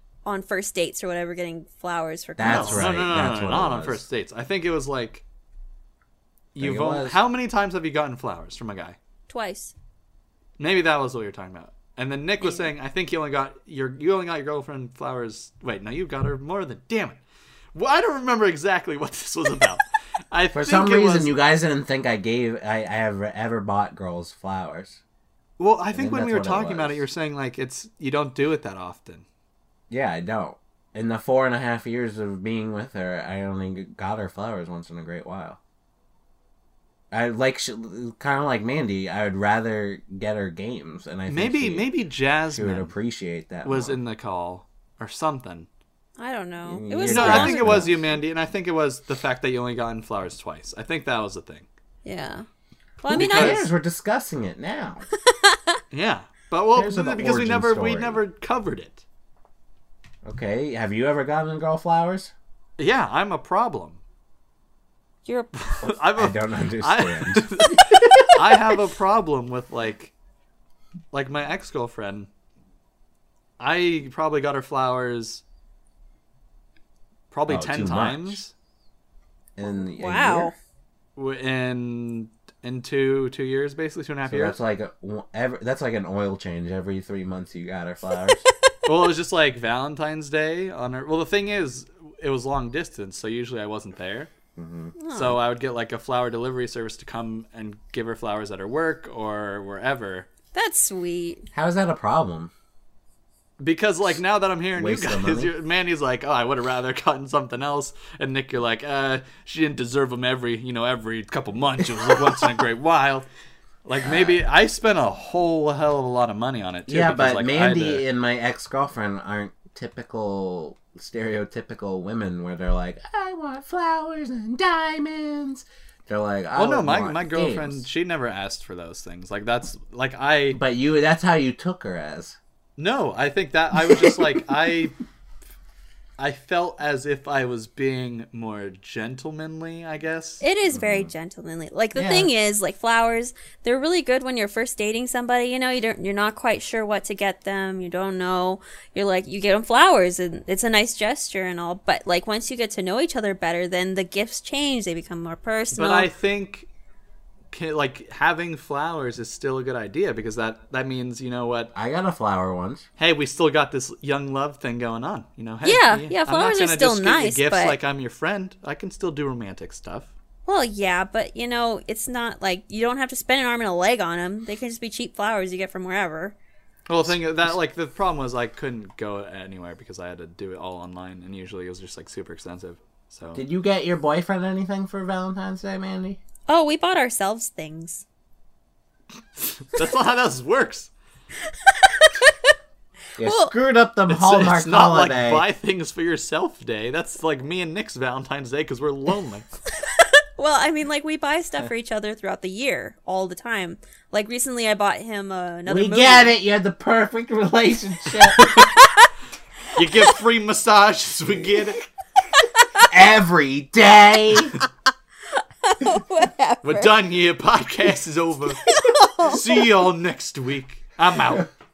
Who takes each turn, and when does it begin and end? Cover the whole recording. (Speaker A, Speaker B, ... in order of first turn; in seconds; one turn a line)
Speaker A: 0.2-2.9
Speaker B: 2.4-4.0
Speaker C: 2.5-5.2
Speaker C: 6.5-9.0
Speaker B: 6.6-7.2
Speaker A: 9.3-9.7
Speaker C: 10.6-17.2
Speaker A: 12.4-12.7
Speaker C: 17.8-21.3
Speaker B: 20.5-25.0
Speaker C: 25.6-29.2
Speaker B: 25.9-27.0
Speaker B: 29.9-35.6
Speaker B: 37.1-41.9
Speaker C: 41.3-42.9
Speaker B: 42.5-44.0
Speaker C: 43.6-45.7
Speaker A: 46.2-48.0
Speaker B: 46.6-48.0
Speaker C: 47.1-51.7
Speaker A: 52.0-52.5
Speaker A: 53.0-53.7
Speaker C: 53.1-53.7
Speaker B: 53.1-55.0
Speaker A: 55.3-55.8
Speaker C: 55.9-59.0
Speaker B: 56.7-58.2
Speaker B: 60.2-62.3
Speaker C: 62.8-64.0
Speaker A: 65.2-65.6
Speaker C: 65.6-70.1
Speaker B: 65.8-68.8
Speaker C: 71.1-72.3
Speaker C: 73.6-75.4
Speaker C: 77.3-78.5
Speaker B: 77.5-78.4
Speaker B: 79.6-80.5
Speaker A: 79.7-80.5
Speaker C: 81.2-84.6
Speaker B: 84.2-88.4
Speaker C: 88.8-94.3
Speaker B: 94.5-95.0
Speaker A: 95.0-95.4
Speaker C: 95.1-100.3
Speaker A: 100.5-101.5
Speaker B: 101.5-102.5
Speaker C: 103.6-113.3
Speaker B: 104.8-105.5
Speaker B: 112.0-112.3
Speaker C: 113.8-118.0
Speaker B: 114.0-114.4
Speaker B: 116.9-127.9
Speaker C: 126.5-130.6
Speaker B: 130.5-132.4
Speaker C: 132.8-135.0
Speaker B: 133.9-134.2
Speaker C: 136.2-140.4
Speaker A: 140.4-156.1
Speaker B: 140.7-141.1
Speaker B: 141.9-142.3
Speaker C: 155.7-156.7
Speaker C: 157.5-161.7
Speaker B: 161.7-162.8
Speaker C: 163.0-170.1
Speaker A: 165.6-167.8
Speaker A: 170.5-176.4
Speaker C: 176.9-183.4
Speaker B: 183.3-186.2
Speaker A: 186.5-188.1
Speaker C: 189.4-190.9
Speaker A: 191.7-192.3
Speaker B: 193.2-195.5
Speaker A: 193.2-193.5
Speaker C: 194.1-199.5
Speaker A: 199.8-206.3
Speaker B: 205.7-208.4
Speaker C: 208.4-208.7
Speaker A: 208.4-209.1
Speaker C: 209.8-211.8
Speaker A: 212.4-212.9
Speaker B: 212.9-214.6
Speaker A: 215.4-217.0
Speaker C: 216.6-218.7
Speaker A: 218.6-219.4
Speaker C: 219.2-221.5